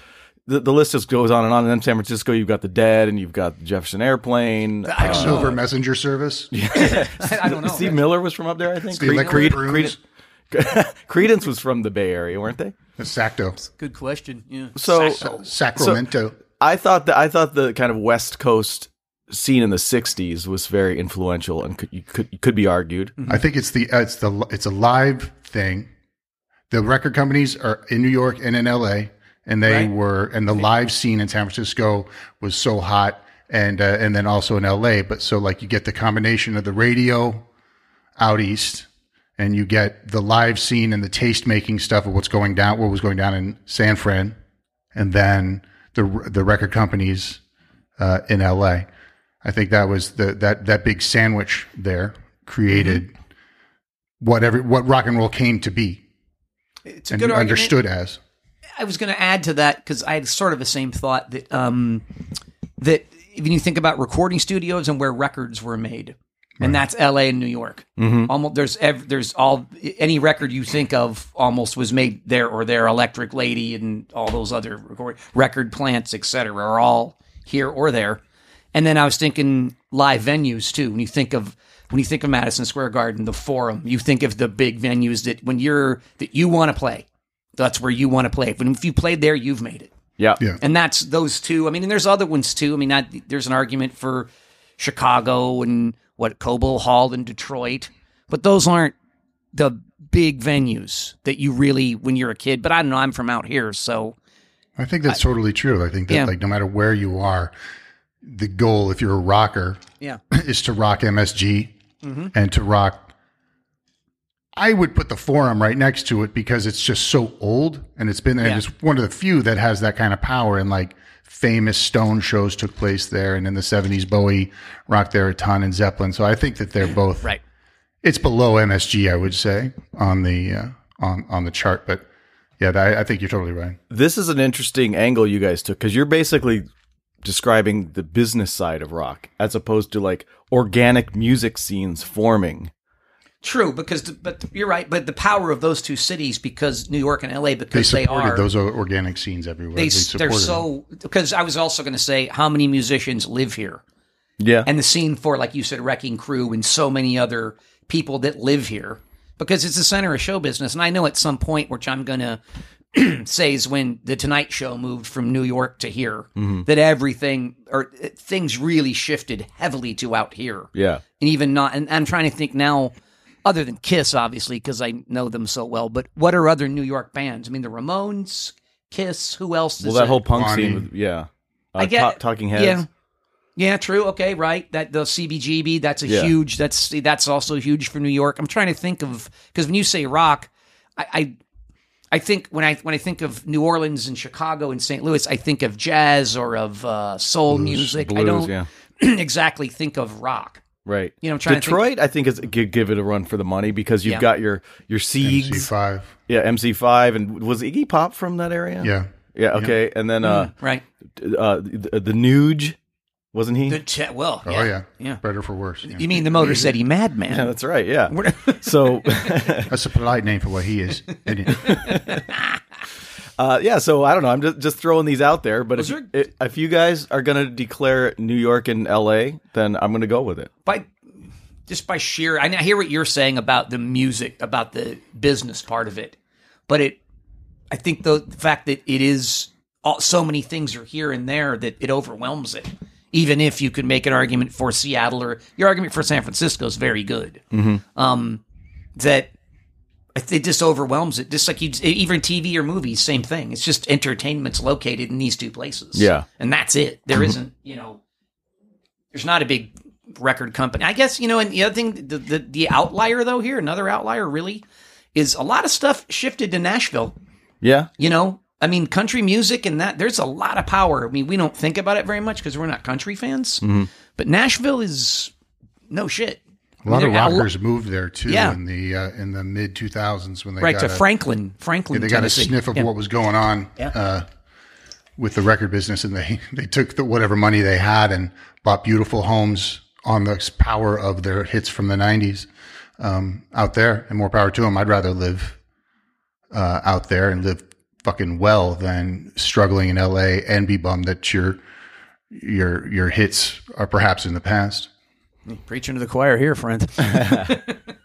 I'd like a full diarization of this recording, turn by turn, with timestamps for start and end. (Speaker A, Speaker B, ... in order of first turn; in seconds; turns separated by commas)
Speaker A: 0.5-5.5, Speaker B: 4.8-5.6, Speaker C: 5.0-6.5, Speaker A: 6.5-10.0, Speaker B: 6.8-8.0, Speaker C: 8.9-10.0, Speaker B: 9.0-9.6, Speaker A: 10.5-12.8, Speaker C: 13.0-13.6, Speaker B: 13.8-15.4, Speaker A: 14.8-15.2, Speaker C: 15.2-16.4, Speaker A: 15.8-16.1, Speaker A: 16.6-23.1, Speaker B: 23.2-23.4, Speaker C: 23.3-25.9, Speaker C: 26.7-37.5, Speaker B: 29.6-29.9, Speaker C: 38.2-44.4, Speaker C: 44.9-47.4, Speaker C: 48.0-48.9, Speaker C: 49.4-53.1, Speaker B: 52.8-53.0, Speaker C: 54.2-56.0, Speaker B: 56.9-57.7, Speaker C: 57.1-58.2, Speaker B: 58.8-62.0, Speaker B: 62.8-78.2, Speaker A: 68.0-68.3, Speaker B: 78.7-87.1, Speaker B: 87.6-89.9, Speaker B: 90.6-98.9, Speaker B: 99.5-104.2, Speaker C: 104.8-107.5, Speaker C: 108.2-111.7, Speaker B: 112.0-112.3, Speaker C: 112.3-113.1, Speaker C: 114.6-127.4, Speaker C: 128.0-132.0, Speaker C: 132.6-133.8, Speaker A: 133.9-136.7, Speaker A: 137.2-142.7, Speaker B: 143.4-148.5, Speaker C: 147.7-150.7, Speaker B: 149.8-153.8, Speaker A: 154.4-154.7, Speaker B: 154.7-162.4, Speaker B: 162.9-172.9, Speaker A: 166.4-166.7, Speaker A: 170.8-171.0, Speaker B: 173.4-180.2, Speaker A: 179.8-182.8, Speaker C: 180.3-180.9, Speaker B: 181.8-182.9, Speaker B: 183.6-191.4, Speaker A: 186.1-186.3, Speaker B: 192.1-200.6, Speaker C: 197.5-197.8, Speaker A: 197.7-198.7, Speaker A: 200.8-205.7, Speaker B: 201.2-201.8, Speaker C: 205.2-206.1, Speaker A: 206.3-210.5, Speaker C: 208.8-209.7, Speaker B: 210.2-210.8, Speaker A: 211.2-212.8, Speaker A: 213.3-213.8, Speaker B: 213.7-215.2, Speaker C: 214.4-216.7, Speaker B: 215.9-217.5, Speaker A: 217.3-219.7, Speaker B: 218.1-219.0, Speaker C: 219.7-221.9, Speaker A: 221.6-222.0, Speaker B: 221.9-222.6, Speaker A: 223.4-230.5, Speaker B: 225.8-226.1, Speaker B: 230.7-230.9, Speaker B: 231.7-236.2, Speaker B: 236.7-237.0, Speaker B: 237.7-247.4, Speaker A: 247.5-247.8, Speaker B: 248.0-248.4, Speaker B: 249.0-249.3, Speaker B: 250.2-258.0, Speaker A: 255.9-256.3, Speaker B: 259.1-264.6, Speaker B: 265.1-267.2, Speaker A: 267.6-267.9, Speaker B: 268.0-273.6, Speaker A: 273.6-273.9, Speaker B: 274.2-275.3, Speaker B: 275.9-277.5, Speaker C: 276.8-281.1, Speaker B: 278.3-278.6, Speaker B: 280.6-282.9, Speaker C: 281.9-284.3, Speaker C: 285.2-292.5, Speaker C: 293.0-295.6, Speaker C: 296.5-301.6, Speaker C: 302.3-304.9, Speaker B: 305.5-307.8, Speaker A: 307.0-307.6